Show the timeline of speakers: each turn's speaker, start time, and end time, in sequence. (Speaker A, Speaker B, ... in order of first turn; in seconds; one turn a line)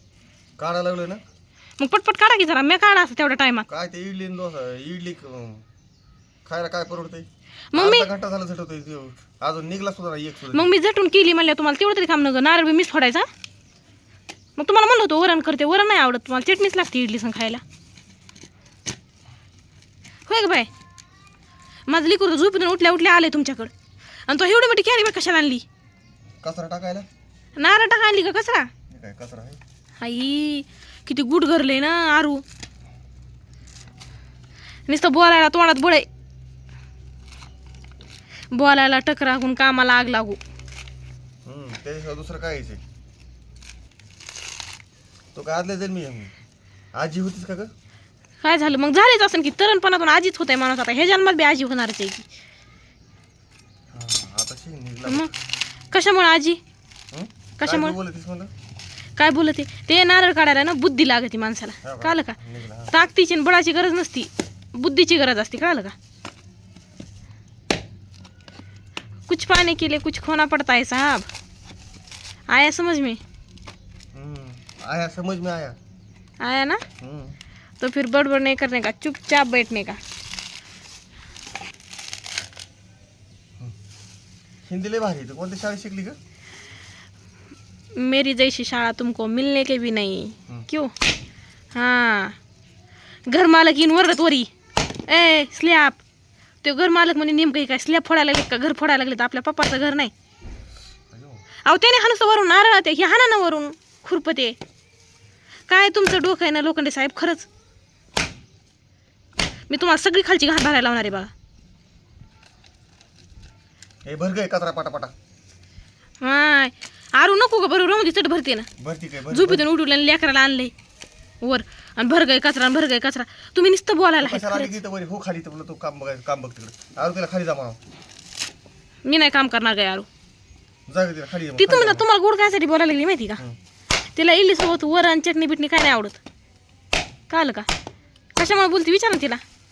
Speaker A: 0.6-1.2
Speaker B: 1.8-3.6
Speaker A: 3.7-5.6
Speaker A: 6.5-10.7
Speaker B: 7.7-8.1
Speaker B: 10.5-13.3
Speaker B: 14.6-17.6
Speaker B: 20.3-20.7
Speaker B: 21.9-23.7
Speaker B: 24.3-25.6
Speaker A: 26.4-27.1
Speaker B: 27.6-28.7
Speaker A: 28.9-29.6
Speaker B: 30.0-32.4
Speaker B: 34.9-36.1
Speaker B: 38.5-40.4
Speaker A: 41.5-42.8
Speaker A: 45.4-46.3
Speaker A: 47.0-47.7
Speaker B: 48.4-52.3
Speaker A: 53.9-55.3
Speaker B: 55.9-56.6
Speaker A: 57.1-58.5
Speaker B: 57.6-58.0
Speaker B: 59.2-62.4
Speaker A: 61.8-62.9
Speaker B: 62.9-66.0
Speaker B: 69.3-71.3
Speaker B: 72.5-73.2
Speaker A: 74.1-75.8
Speaker B: 76.4-76.8
Speaker A: 77.0-77.4
Speaker B: 77.8-80.0
Speaker A: 84.7-86.2
Speaker B: 88.0-90.9
Speaker B: 91.8-92.4
Speaker B: 93.3-94.5
Speaker B: 95.1-96.0
Speaker B: 96.6-100.1
Speaker A: 101.1-101.4
Speaker B: 101.7-104.6
Speaker B: 105.7-107.5
Speaker B: 109.7-111.3
Speaker A: 114.0-115.1
Speaker B: 116.2-118.7
Speaker A: 118.8-119.7
Speaker B: 119.3-120.7
Speaker B: 121.4-124.7
Speaker A: 124.2-127.8
Speaker B: 129.1-130.1
Speaker A: 130.9-132.1
Speaker B: 131.6-133.4
Speaker B: 134.2-136.2
Speaker B: 137.3-137.7
Speaker B: 138.4-139.4